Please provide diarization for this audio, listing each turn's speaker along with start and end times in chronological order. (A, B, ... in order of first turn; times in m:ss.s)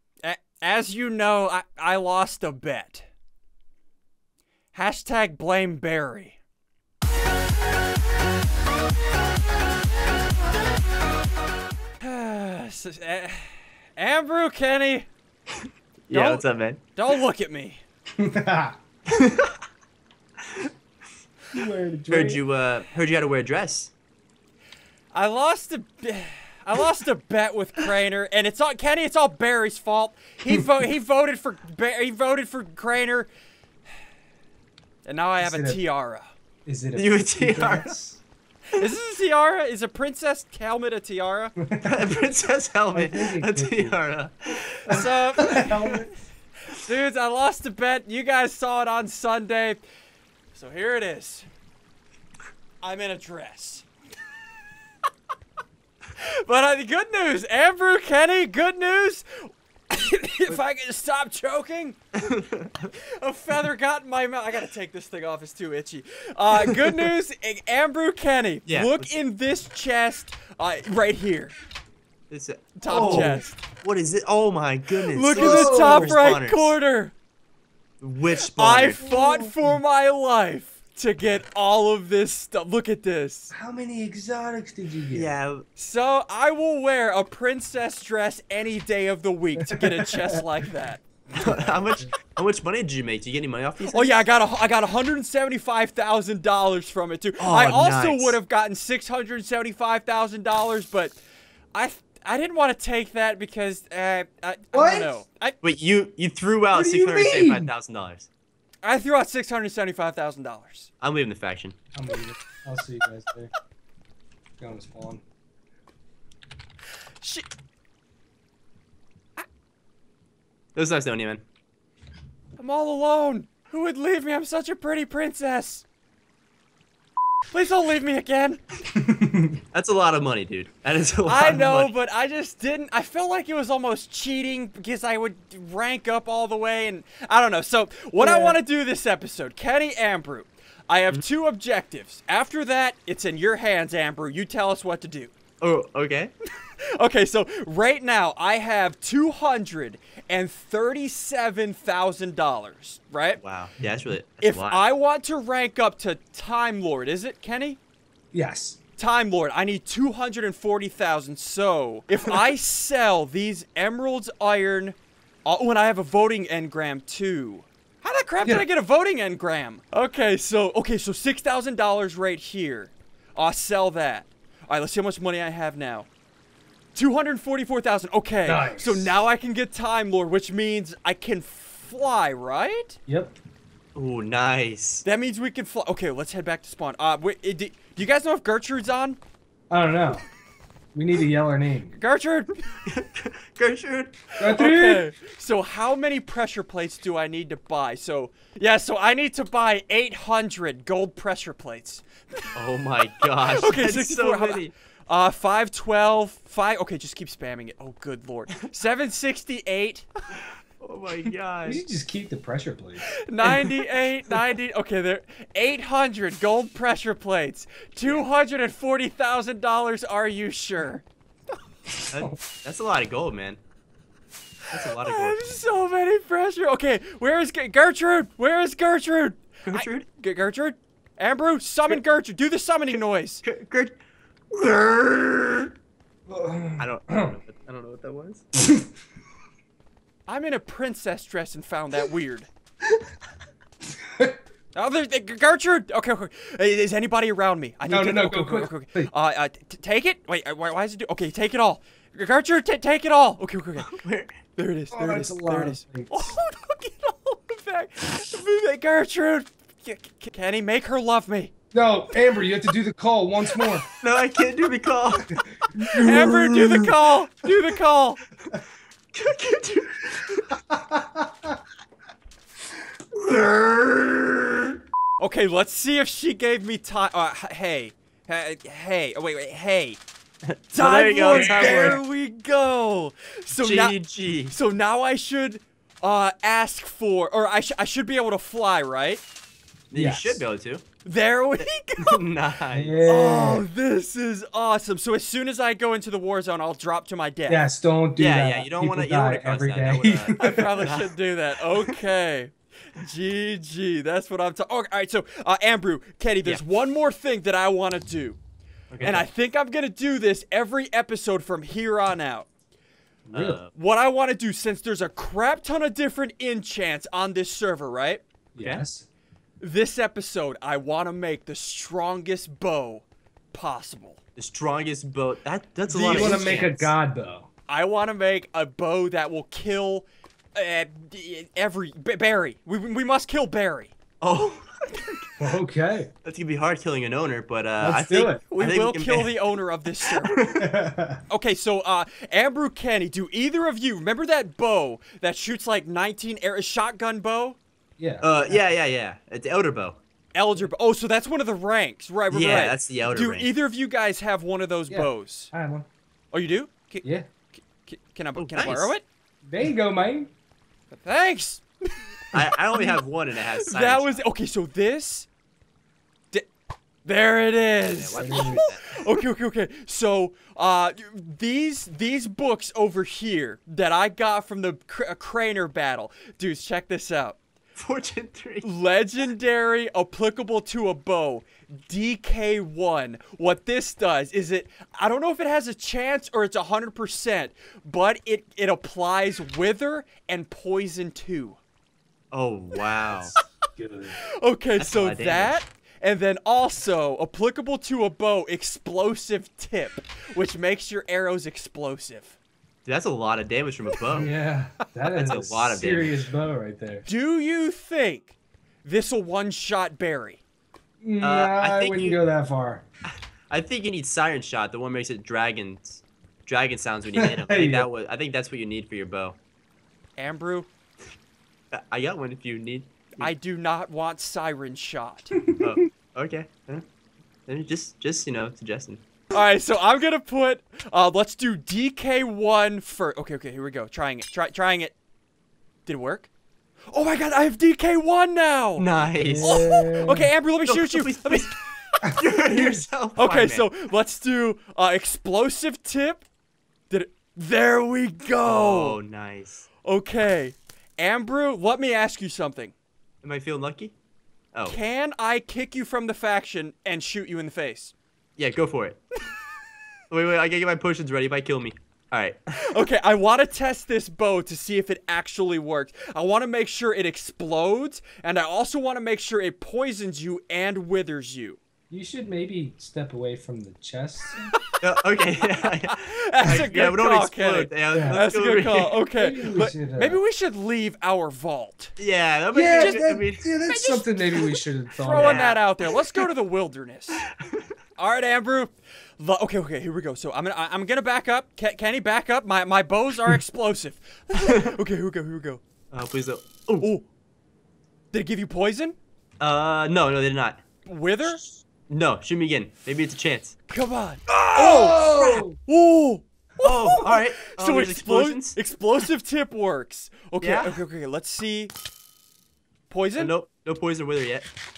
0:00.2-0:03.0 A
0:04.7-0:06.4 A
0:12.0-0:15.1 A
0:16.1-0:16.8 B
0:16.1-0:17.8 A
0:18.2-0:18.8 C
0:19.1-0:19.5 B
0:21.5-0:22.4 C
0:22.1-0:23.9 B
0:25.1-0:33.3 A
0:35.0-0:36.3 A
0:35.4-0:35.8 C
0:36.6-0:38.2 C
0:36.9-0:37.9 B
0:38.8-0:41.5 A
0:41.6-0:42.1 C
0:41.8-0:45.1 B
0:42.9-0:44.0 C
0:44.9-0:46.1 C
0:44.9-0:46.1 A
0:46.8-0:49.8 A
0:50.5-0:51.4 A
0:52.8-0:53.8 A
0:56.2-1:02.0 A
1:02.3-1:02.9 B
1:03.2-1:11.5 A
1:08.6-1:09.2 B
1:12.3-1:16.7 B
1:12.8-1:13.6 A
1:12.8-1:13.4 C
1:15.1-1:17.1 A
1:15.3-1:16.3 C
1:18.0-1:19.0 B
1:18.5-1:23.5 A
1:19.0-1:19.7 C
1:23.5-1:25.3 C
1:25.1-1:25.6 B
1:25.8-1:31.0 A
1:29.7-1:30.2 C
1:31.3-1:32.1 C
1:31.3-1:34.2 B
1:33.9-1:41.2 A
1:37.4-1:38.4 B
1:41.7-1:45.6 A
1:44.7-1:45.2 C
1:45.6-1:48.3 B
1:46.7-1:47.7 C
1:48.8-1:50.9 A
1:51.0-1:51.7 B
1:51.9-1:53.5 C
1:54.6-1:55.2 C
1:57.2-1:57.5 A
2:00.8-2:01.4 B
2:02.6-2:05.8 A
2:07.5-2:08.6 A
2:09.0-2:09.6 C
2:09.7-2:11.9 B
2:11.2-2:25.3 A
2:18.2-2:18.6 C
2:25.6-2:26.3 B
2:27.0-2:33.4 A
2:33.4-2:34.8 B
2:34.4-2:37.8 A
2:38.3-2:38.8 C
2:39.0-2:56.1 A
2:56.9-3:03.0 A
2:58.4-2:59.2 C
3:03.1-3:03.4 C
3:04.0-3:05.0 B
3:05.0-3:09.2 A
3:09.7-3:10.2 C
3:10.9-3:11.9 C
3:11.9-3:12.6 A
3:12.9-3:14.2 B
3:14.4-3:15.1 C
3:14.4-3:22.5 A
3:22.5-3:24.7 B
3:23.4-3:30.1 A
3:30.8-3:31.8 B
3:31.6-3:33.0 C
3:33.3-3:41.0 A
3:33.4-3:33.7 B
3:42.1-3:43.6 B
3:44.7-3:45.5 B
3:44.8-3:53.4 A
3:49.6-3:50.0 B
3:53.4-3:54.0 B
3:54.5-3:55.7 B
3:56.3-3:57.4 C
3:56.8-3:58.4 B
3:58.6-3:58.9 C
4:00.3-4:02.5 A
4:04.7-4:13.9 A
4:07.9-4:09.1 C
4:13.8-4:14.3 B
4:14.6-4:21.5 A
4:14.9-4:16.3 C
4:21.7-4:23.8 C
4:24.0-4:25.4 B
4:25.3-4:27.0 C
4:25.9-4:26.8 B
4:25.9-4:28.2 A
4:29.1-4:30.6 B
4:30.7-4:31.5 C
4:33.2-4:34.7 B
4:35.2-4:40.0 A
4:40.5-4:42.0 B
4:40.7-4:49.2 A
4:41.3-4:42.0 C
4:43.5-4:44.5 B
4:49.9-4:50.8 B
4:49.9-4:50.4 C
4:51.0-4:52.2 A
4:51.6-4:53.1 B
4:52.7-4:53.6 C
4:53.0-4:57.6 A
4:57.5-5:00.8 C
4:58.2-5:01.1 B
5:00.4-5:08.4 A
5:08.9-5:09.3 B
5:09.0-5:12.5 A
5:13.3-5:13.7 B
5:13.3-5:13.6 C
5:13.7-5:18.2 A
5:18.5-5:19.1 C
5:19.6-5:24.2 A
5:24.4-5:26.9 B
5:25.9-5:27.5 C
5:26.1-5:26.4 A
5:27.7-5:33.9 A
5:34.2-5:35.4 B
5:35.4-5:36.1 C
5:36.2-5:39.5 B
5:37.8-5:38.4 C
5:38.5-5:40.3 A
5:40.0-5:40.7 B
5:40.5-5:41.2 C
5:41.3-5:47.6 A
5:48.0-5:48.6 C
5:48.2-5:50.0 B
5:50.3-5:55.5 A
5:52.3-5:53.5 B
5:54.9-5:55.9 C
5:56.3-5:59.0 A
5:57.0-5:57.3 C
5:58.4-5:58.9 B
5:59.4-6:00.3 C
6:00.9-6:01.6 A
6:02.3-6:03.0 A
6:02.3-6:04.2 B
6:03.5-6:05.3 A
6:07.0-6:17.4 A
6:07.9-6:09.2 B
6:08.1-6:08.6 C
6:17.8-6:18.7 B
6:18.6-6:31.6 A
6:32.3-6:33.3 B
6:33.8-6:34.2 C
6:34.4-6:42.4 A
6:34.8-6:35.6 B
6:42.8-6:44.3 B
6:44.1-6:47.1 C
6:45.0-6:46.2 B
6:47.1-6:50.4 A
6:51.0-6:52.8 C
6:51.2-6:52.2 B
6:53.5-6:59.4 B
6:57.1-6:57.9 C
7:00.2-7:00.7 A
7:01.7-7:03.3 B
7:03.2-7:05.3 A
7:05.4-7:05.8 C
7:05.6-7:06.8 B
7:07.5-7:09.0 B
7:09.3-7:14.9 A
7:15.8-7:16.3 A
7:16.9-7:18.9 A
7:18.8-7:19.6 B
7:19.2-7:20.3 C
7:19.4-7:21.7 A
7:20.7-7:23.7 B
7:22.5-7:22.8 C
7:23.2-7:26.2 A
7:26.9-7:29.0 A
7:28.4-7:29.7 B
7:29.8-7:32.7 A
7:33.2-7:33.9 B
7:34.7-7:37.9 A
7:38.4-7:39.0 B
7:40.1-7:42.4 B
7:42.7-7:51.6 A
7:51.9-7:54.5 C
7:54.8-7:59.0 B
7:55.8-8:01.9 A
7:57.9-7:58.2 C
7:59.1-8:00.2 C
8:02.0-8:03.5 B
8:02.5-8:05.5 C
8:02.7-8:03.0 A
8:03.7-8:04.4 A
8:05.0-8:07.2 A
8:05.1-8:06.2 B
8:08.0-8:15.6 A
8:14.4-8:14.7 B
8:15.9-8:16.9 B
8:18.1-8:19.0 A
8:19.4-8:20.6 B
8:20.8-8:21.4 A
8:21.2-8:23.6 B
8:23.7-8:31.7 A
8:24.3-8:25.6 C
8:24.8-8:25.4 B
8:26.6-8:28.6 B
8:30.4-8:30.8 B
8:32.9-8:33.3 A
8:33.2-8:34.5 B